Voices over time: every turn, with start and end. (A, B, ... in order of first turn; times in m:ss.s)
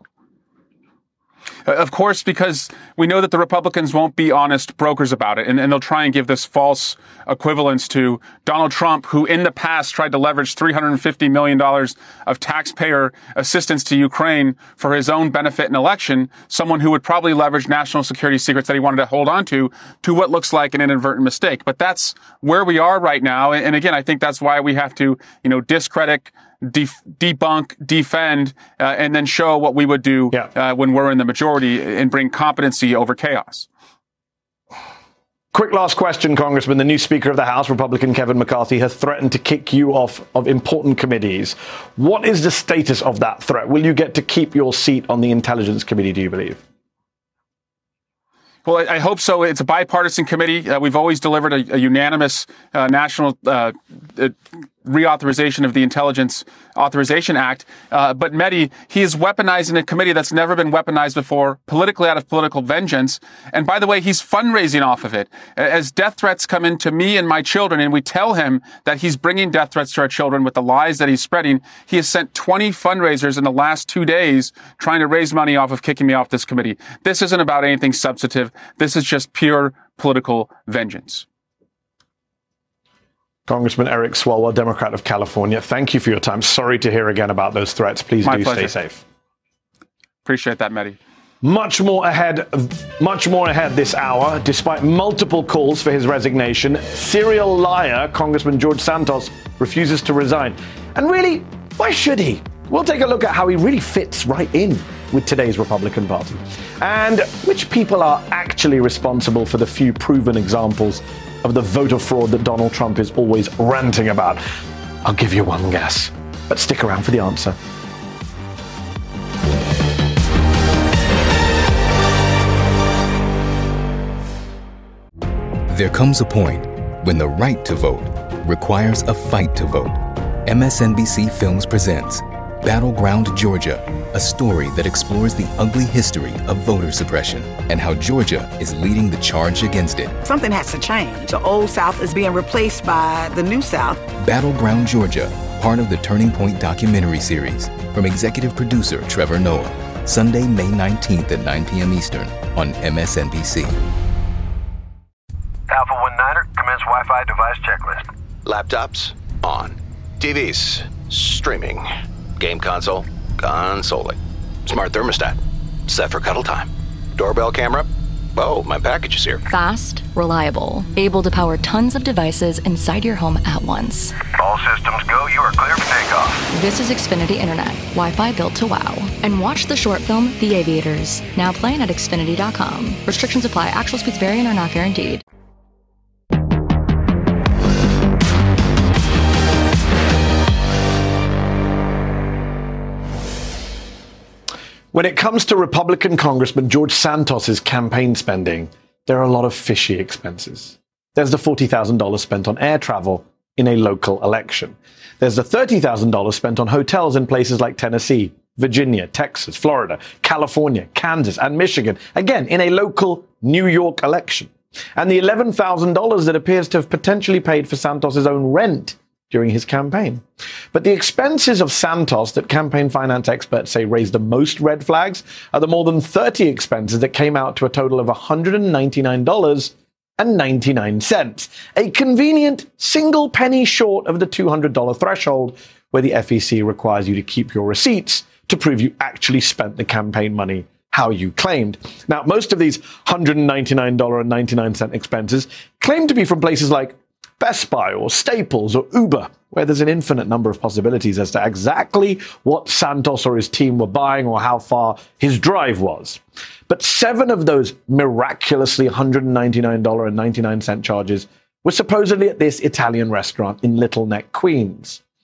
0:01.7-0:33.7 A
0:35.5-0:46.6 B
0:48.6-1:21.2 A
1:23.5-1:29.0 B
1:28.2-1:28.7 A
1:30.2-1:31.0 A
1:31.4-1:54.4 B
1:55.0-1:57.6 B
2:05.7-2:20.2 C
2:20.2-2:24.0 D
2:24.2-2:33.8 C
2:35.7-2:38.1 E
2:38.4-2:49.4 F
2:49.5-2:54.2 G
2:54.3-2:56.4 E
2:56.5-3:05.2 G
3:14.9-4:25.0 B